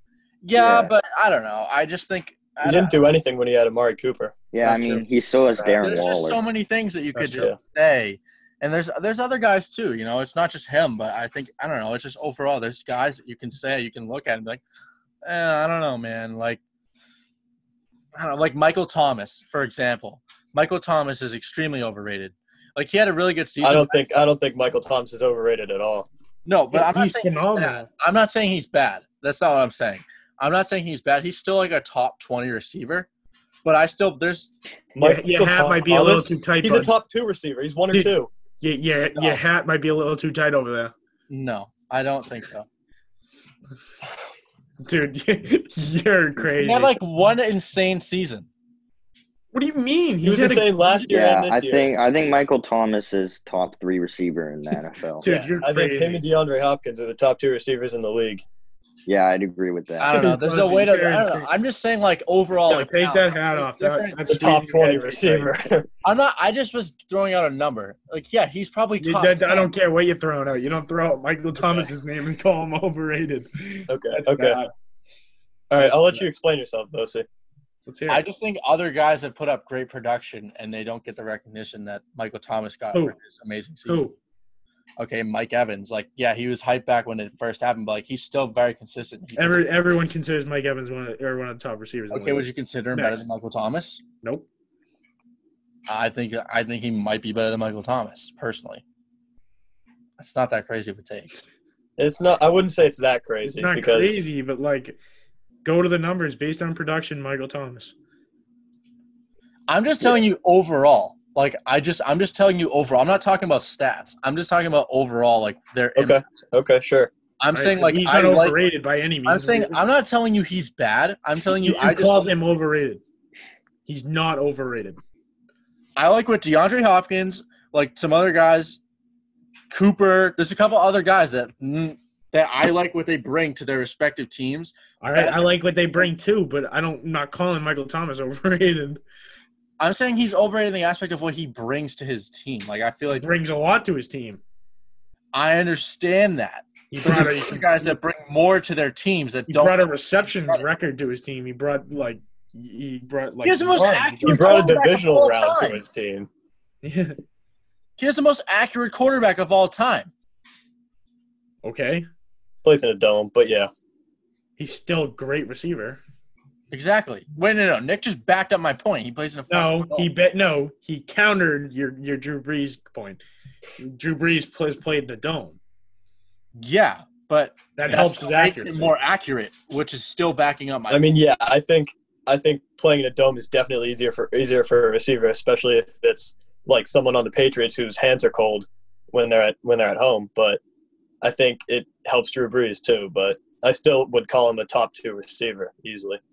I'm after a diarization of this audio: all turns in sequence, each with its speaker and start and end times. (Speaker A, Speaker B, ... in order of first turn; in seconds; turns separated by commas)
Speaker A: 0.4-3.0, Speaker B: 0.5-0.9, Speaker C: 2.6-4.3, Speaker B: 4.5-6.4, Speaker D: 4.6-5.0, Speaker A: 5.8-14.6, Speaker D: 7.1-7.5, Speaker A: 15.2-16.6, Speaker A: 18.1-24.0, Speaker C: 23.6-26.1, Speaker A: 26.4-33.1, Speaker D: 26.7-27.9, Speaker A: 33.6-34.5, Speaker C: 34.9-38.3, Speaker D: 35.0-36.9, Speaker D: 37.9-40.9, Speaker A: 39.1-39.4, Speaker A: 41.3-42.7, Speaker D: 44.8-47.0, Speaker A: 46.4-48.5, Speaker D: 49.5-51.1, Speaker C: 50.2-51.9, Speaker B: 51.1-55.2, Speaker D: 55.2-56.2, Speaker C: 55.2-58.4, Speaker B: 59.1-60.1, Speaker A: 60.0-64.5, Speaker D: 60.1-61.5, Speaker D: 62.7-65.5, Speaker C: 64.3-65.9, Speaker A: 66.0-69.7, Speaker D: 69.0-74.7, Speaker C: 71.6-71.9, Speaker C: 73.9-74.6, Speaker C: 75.7-77.2, Speaker D: 75.8-76.2, Speaker D: 77.8-78.2, Speaker A: 78.1-84.0, Speaker D: 83.9-84.2, Speaker A: 85.0-89.8, Speaker D: 89.4-93.2, Speaker A: 92.1-94.0, Speaker D: 94.2-94.5, Speaker A: 95.9-98.8, Speaker A: 100.2-101.3, Speaker C: 102.0-104.2, Speaker D: 103.5-105.0, Speaker D: 105.6-107.9, Speaker A: 109.7-116.2, Speaker C: 116.0-117.1, Speaker A: 117.4-118.6, Speaker D: 117.5-119.8, Speaker A: 119.2-122.3, Speaker D: 121.5-123.0, Speaker D: 123.8-125.0, Speaker A: 126.0-128.8, Speaker A: 129.7-135.4, Speaker D: 135.0-139.0, Speaker A: 139.8-143.4, Speaker D: 143.1-144.4, Speaker A: 145.3-149.8, Speaker D: 146.9-147.9, Speaker D: 149.5-154.6, Speaker A: 153.4-155.8, Speaker C: 153.8-156.3, Speaker D: 156.8-157.2, Speaker A: 158.0-160.1, Speaker D: 161.6-162.1, Speaker C: 162.6-163.7, Speaker D: 164.6-166.0, Speaker A: 166.7-170.1, Speaker D: 169.5-173.2, Speaker D: 173.8-175.6, Speaker A: 176.5-181.1, Speaker D: 177.8-178.9, Speaker C: 180.9-190.6, Speaker C: 191.2-196.2